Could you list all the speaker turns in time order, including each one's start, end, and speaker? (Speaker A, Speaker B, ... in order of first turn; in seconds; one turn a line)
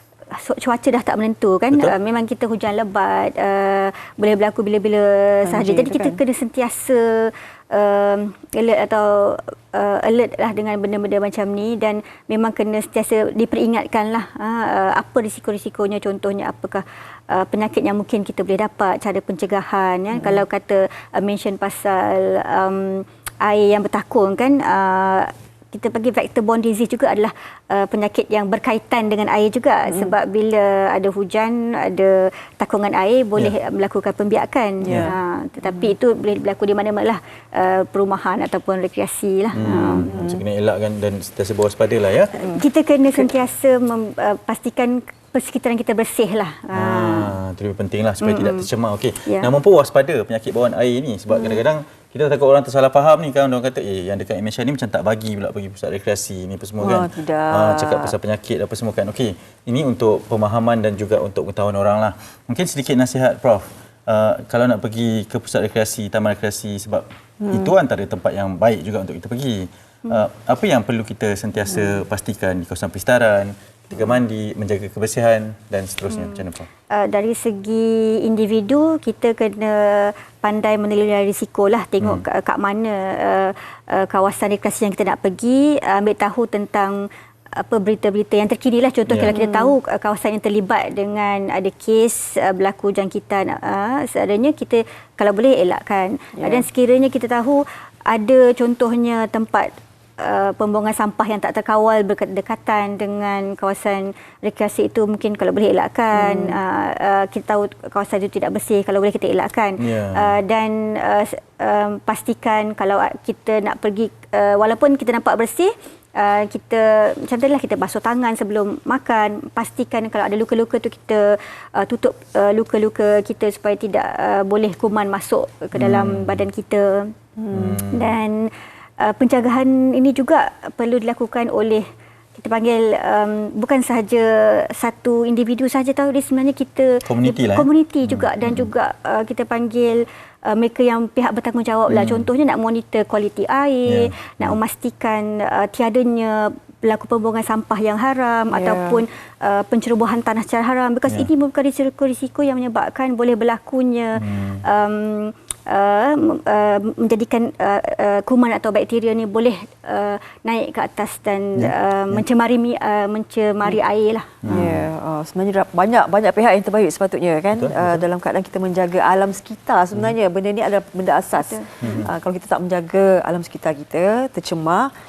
Speaker A: 0.3-40.1
Speaker B: 5.4-6.2
Speaker B: 20.1-20.4
Speaker B: 29.9-30.1
Speaker B: 34.8-35.1
Speaker C: 34.9-35.1
Speaker B: 35.6-35.9
Speaker C: 39.5-42.3
Speaker B: 39.6-40.4
Speaker A: 42.4-47.4
Speaker C: 46.7-76.7
Speaker A: 48.2-48.7
Speaker A: 49.2-49.5
Speaker B: 56.8-58.1
Speaker B: 67.4-67.7
Speaker A: 76.1-127.1
Speaker C: 82.0-82.2
Speaker B: 89.2-89.8
Speaker B: 96.4-96.7
Speaker B: 106.1-106.6
Speaker C: 109.8-110.3
Speaker C: 125.7-126.5
Speaker B: 127.4-127.8
Speaker C: 127.5-128.2
Speaker A: 127.8-131.8
Speaker A: 132.4-164.6
Speaker C: 137.1-138.7
Speaker C: 141.9-142.3
Speaker C: 143.9-144.6
Speaker B: 148.5-149.0
Speaker C: 154.2-154.6
Speaker C: 161.6-162.2
Speaker C: 164.4-164.9
Speaker B: 164.5-174.9
Speaker C: 167.5-168.0
Speaker A: 171.3-172.0
Speaker C: 171.8-172.1